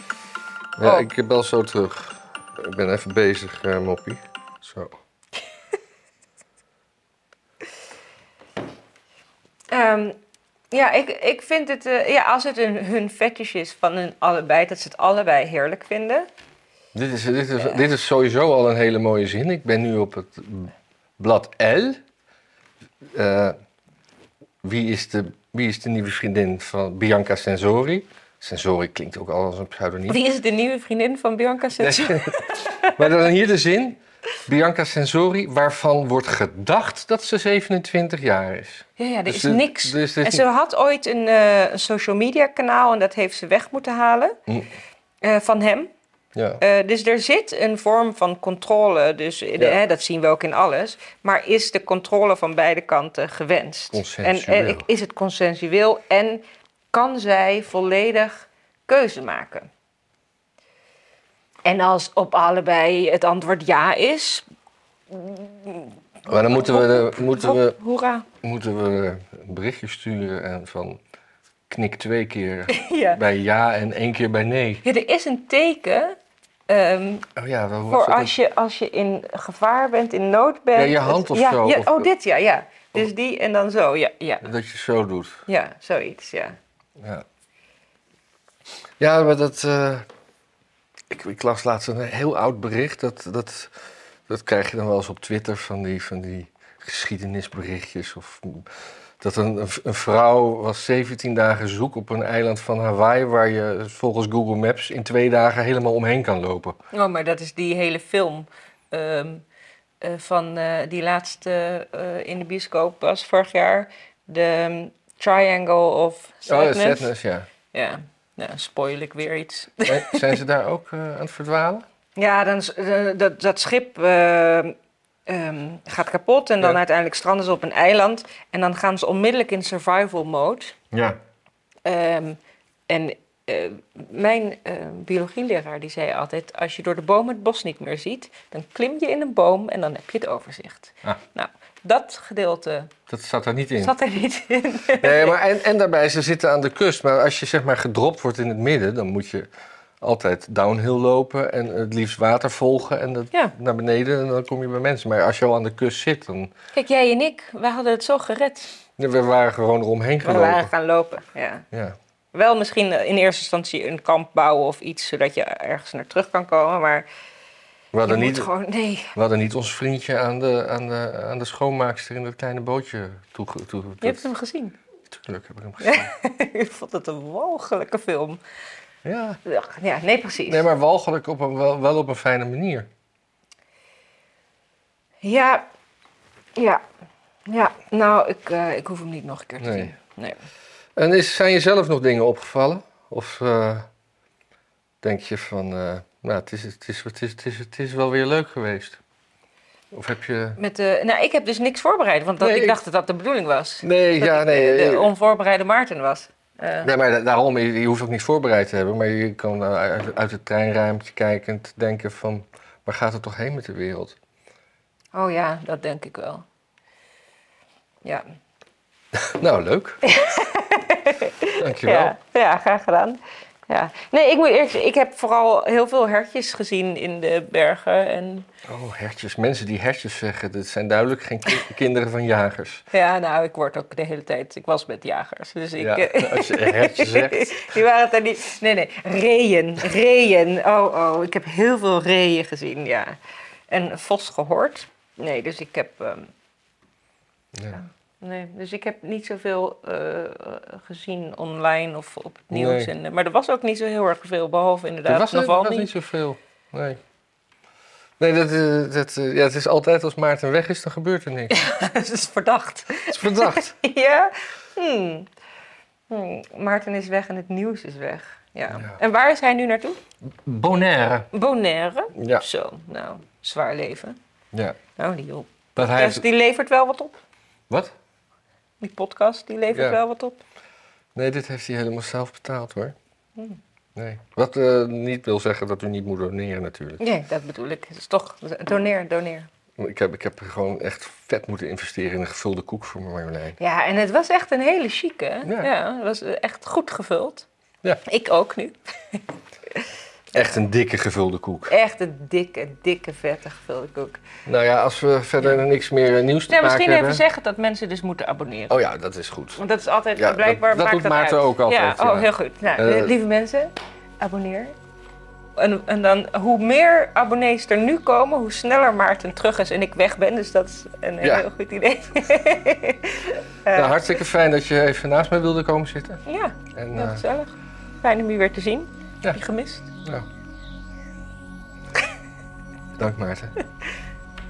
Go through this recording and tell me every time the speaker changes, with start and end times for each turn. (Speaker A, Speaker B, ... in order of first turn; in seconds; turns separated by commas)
Speaker A: 0.8-5.0, Speaker B: 0.8-1.1, Speaker B: 9.7-10.2, Speaker B: 10.7-16.3, Speaker A: 16.9-22.0, Speaker A: 23.1-23.6, Speaker A: 24.6-30.2, Speaker B: 30.1-33.1, Speaker A: 31.8-40.5, Speaker B: 39.0-44.4, Speaker A: 44.5-44.7, Speaker B: 45.2-45.9, Speaker A: 46.4-46.6, Speaker B: 46.6-59.7, Speaker A: 53.9-54.8, Speaker B: 61.6-64.4, Speaker B: 65.1-68.3, Speaker A: 66.3-67.8, Speaker A: 68.4-71.0, Speaker A: 71.7-74.8, Speaker B: 72.7-73.2, Speaker B: 74.8-76.2, Speaker B: 76.7-77.2, Speaker A: 77.3-78.3, Speaker B: 77.9-84.5, Speaker A: 80.7-82.1, Speaker A: 84.4-85.4, Speaker B: 85.5-86.5, Speaker A: 87.0-87.2, Speaker A: 89.0-90.0, Speaker A: 91.1-93.7, Speaker A: 94.3-98.7, Speaker A: 99.2-106.8, Speaker B: 106.9-109.4, Speaker B: 110.0-117.1, Speaker A: 116.5-117.5, Speaker B: 117.7-120.4, Speaker A: 119.8-121.8, Speaker B: 122.2-124.7, Speaker B: 125.3-130.7, Speaker A: 130.9-131.2, Speaker B: 131.8-142.9, Speaker A: 143.1-143.9, Speaker B: 143.8-145.4, Speaker A: 144.9-149.5, Speaker A: 150.0-156.5, Speaker B: 156.7-158.7, Speaker A: 159.0-160.7, Speaker B: 160.2-161.7, Speaker B: 162.3-167.1, Speaker A: 167.9-168.5, Speaker B: 168.1-169.1, Speaker A: 169.1-174.3, Speaker B: 174.0-174.8, Speaker A: 175.1-176.1, Speaker B: 175.8-178.4, Speaker A: 179.0-179.4, Speaker B: 179.4-180.6, Speaker A: 180.5-182.9, Speaker B: 185.2-185.6, Speaker B: 186.6-186.8, Speaker B: 187.5-190.4, Speaker A: 189.6-189.9, Speaker A: 190.9-193.9, Speaker A: 195.0-199.0, Speaker A: 199.9-200.6, Speaker B: 200.6-206.9, Speaker A: 202.4-202.8, Speaker A: 203.8-205.1, Speaker A: 206.8-214.2, Speaker B: 215.1-216.4, Speaker A: 219.2-220.0, Speaker B: 220.0-228.5, Speaker A: 221.6-222.1, Speaker A: 228.7-232.9, Speaker B: 232.9-243.2, Speaker A: 235.8-237.7, Speaker B: 243.7-246.3, Speaker A: 247.5-247.8, Speaker B: 247.7-255.9, Speaker A: 252.5-252.9, Speaker A: 255.1-257.0, Speaker A: 258.2-261.7, Speaker B: 261.5-265.3, Speaker A: 263.1-263.7, Speaker B: 266.1-270.0, Speaker A: 268.7-269.0, Speaker A: 270.2-271.3, Speaker B: 271.3-274.2, Speaker A: 272.1-272.4, Speaker A: 274.5-274.8, Speaker B: 274.9-277.2, Speaker A: 275.8-276.2, Speaker B: 278.8-280.4, Speaker A: 279.7-280.0, Speaker A: 281.1-282.9, Speaker A: 283.9-287.0, Speaker B: 287.0-289.5, Speaker A: 289.8-293.6, Speaker B: 293.6-297.4, Speaker A: 295.4-295.7, Speaker B: 298.0-300.5, Speaker A: 300.3-301.7, Speaker B: 301.7-304.2, Speaker A: 304.4-307.2, Speaker B: 306.5-308.7, Speaker A: 308.7-309.6, Speaker B: 309.6-314.7, Speaker A: 310.1-313.1, Speaker B: 315.6-324.1, Speaker A: 323.7-327.2, Speaker B: 326.2-329.9, Speaker A: 333.0-333.6